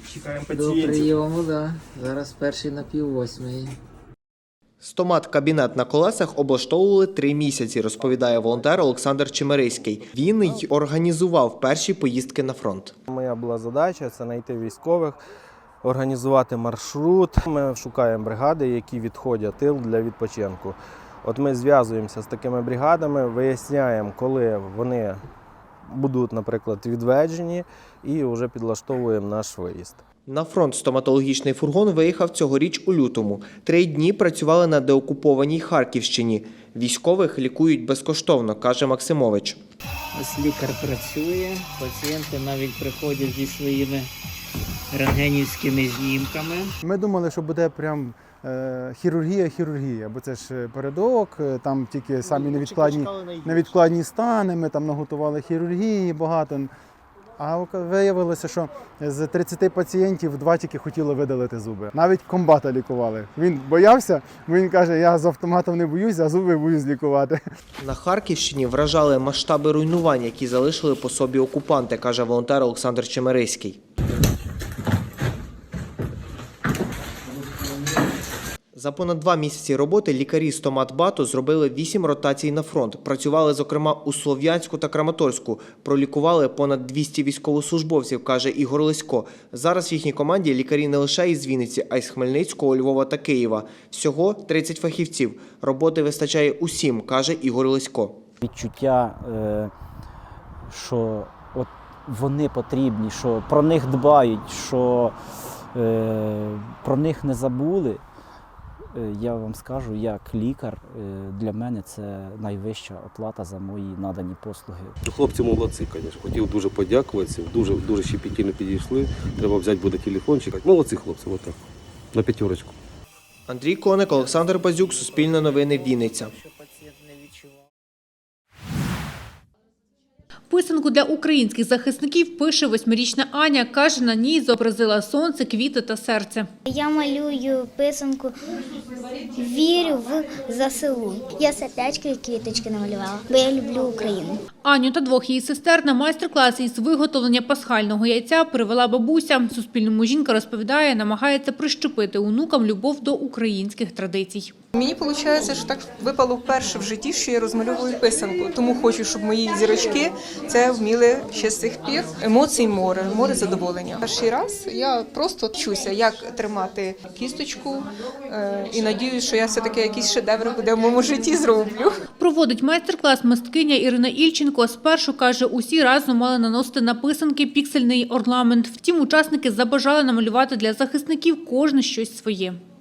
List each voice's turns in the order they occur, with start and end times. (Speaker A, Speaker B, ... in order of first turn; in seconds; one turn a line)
Speaker A: 0.5-3.7
Speaker B: 4.8-12.9
Speaker C: 13.1-15.2
Speaker C: 15.8-25.2
Speaker C: 25.9-30.0
Speaker B: 30.3-39.6
Speaker A: 40.2-44.1
Speaker A: 44.9-46.7
Speaker D: 46.8-56.7
Speaker D: 57.4-67.4
Speaker B: 67.8-73.8
Speaker B: 78.8-98.2
Speaker E: 98.4-99.7
Speaker E: 100.7-105.2
Speaker E: 105.7-108.0
Speaker E: 108.9-115.0
Speaker F: 115.0-121.6
Speaker F: 122.1-122.7
Speaker B: 123.5-126.3
Speaker G: 130.5-136.5
Speaker H: 136.7-138.3
Speaker H: 139.4-144.4
Speaker G: 144.6-154.5
Speaker I: 154.8-171.9
Speaker G: 172.2-182.6